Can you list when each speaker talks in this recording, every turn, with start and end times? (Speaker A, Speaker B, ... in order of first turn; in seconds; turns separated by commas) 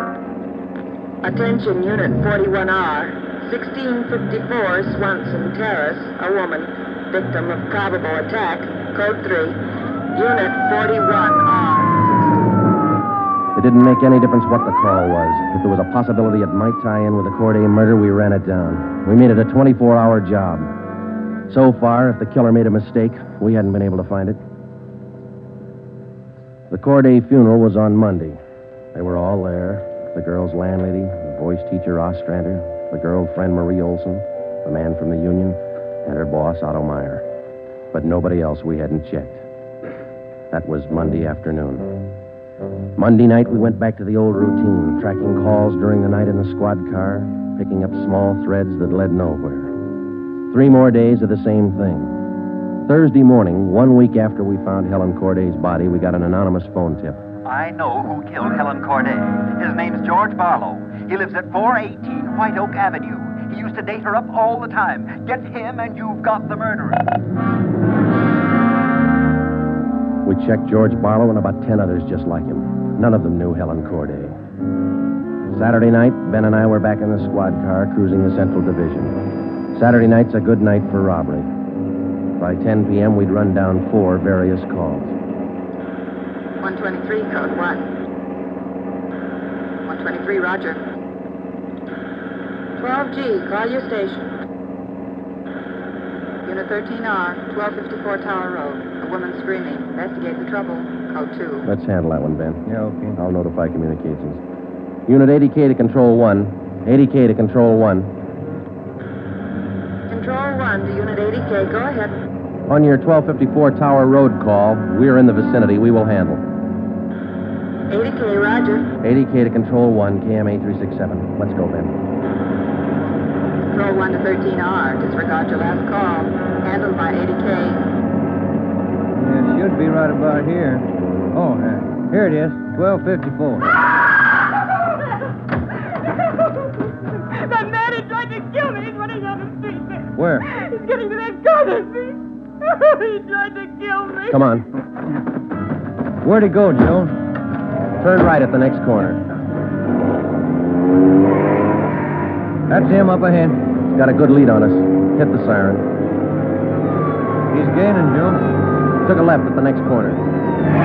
Speaker A: 1.2-9.6, Speaker A: 10.1-12.4, Speaker B: 13.5-20.7, Speaker B: 21.5-24.4, Speaker B: 26.7-28.4, Speaker B: 28.9-37.2, Speaker B: 37.9-39.4, Speaker B: 40.5-42.0, Speaker B: 43.0-49.8, Speaker B: 50.5-52.1, Speaker B: 52.9-57.2, Speaker C: 57.5-66.9, Speaker B: 70.2-74.3, Speaker B: 75.5-79.2, Speaker B: 79.7-81.5, Speaker B: 82.4-85.1, Speaker A: 86.6-87.9, Speaker A: 89.8-90.8, Speaker A: 92.8-94.3, Speaker A: 96.4-101.7, Speaker B: 101.6-102.6, Speaker D: 102.7-103.2, Speaker B: 103.2-104.4, Speaker B: 105.1-108.1, Speaker A: 110.1-112.2, Speaker B: 112.7-116.4, Speaker A: 117.9-118.9, Speaker B: 119.0-122.0, Speaker A: 123.7-127.8, Speaker D: 129.2-133.8, Speaker E: 136.6-144.4, Speaker D: 140.2-140.5, Speaker B: 144.3-144.7, Speaker D: 146.2-147.2, Speaker B: 148.0-149.2, Speaker D: 152.7-153.6, Speaker B: 153.8-155.9, Speaker D: 157.5-158.4, Speaker B: 159.0-160.2